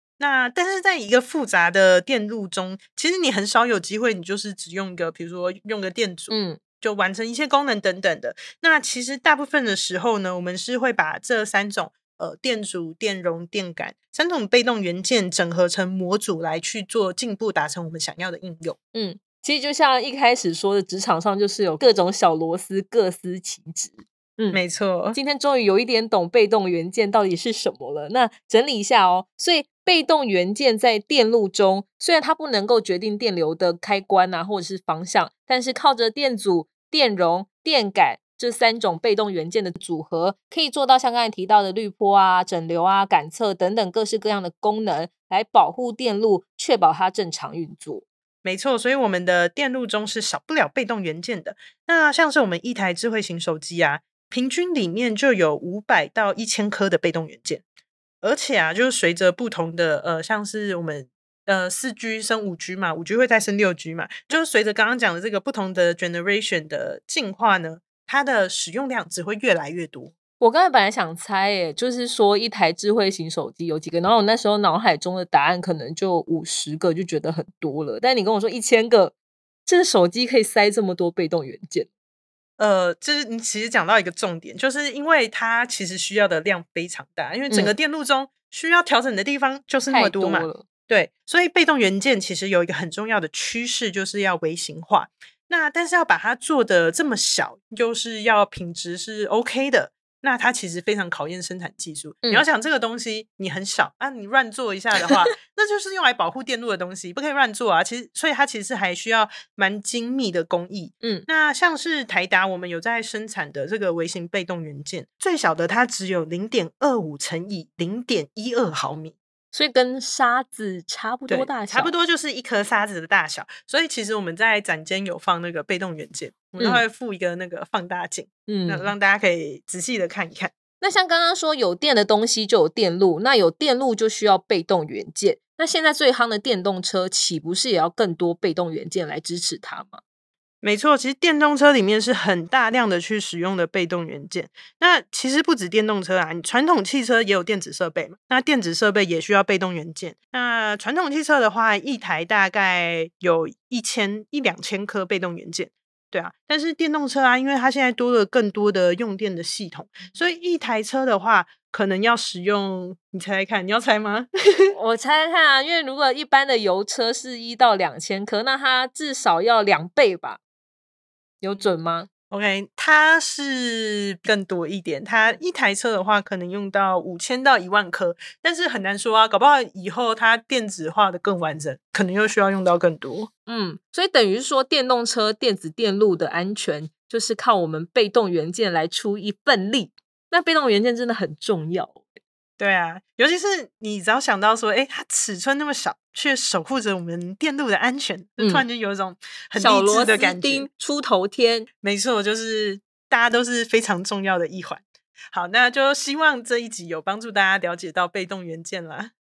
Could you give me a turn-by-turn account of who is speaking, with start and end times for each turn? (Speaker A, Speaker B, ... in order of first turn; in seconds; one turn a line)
Speaker A: 0.2-18.8
Speaker B: 6.3-6.6
Speaker B: 18.9-24.6
Speaker A: 24.5-25.2
Speaker B: 25.1-48.0
Speaker A: 48.4-57.6
Speaker A: 58.2-70.1
Speaker B: 70.4-79.1
Speaker B: 79.7-81.9
Speaker A: 82.6-119.2
Speaker B: 89.9-90.6
Speaker B: 119.5-121.9
Speaker A: 121.3-130.5
Speaker B: 126.6-126.8
Speaker B: 128.5-128.9
Speaker B: 130.8-140.0
Speaker A: 140.6-164.7
Speaker B: 164.8-170.4
Speaker B: 171.4-172.1
Speaker A: 172.3-183.3
Speaker B: 183.5-192.1
Speaker A: 192.6-200.7
Speaker B: 198.4-198.6
Speaker B: 199.6-201.7
Speaker A: 201.8-209.1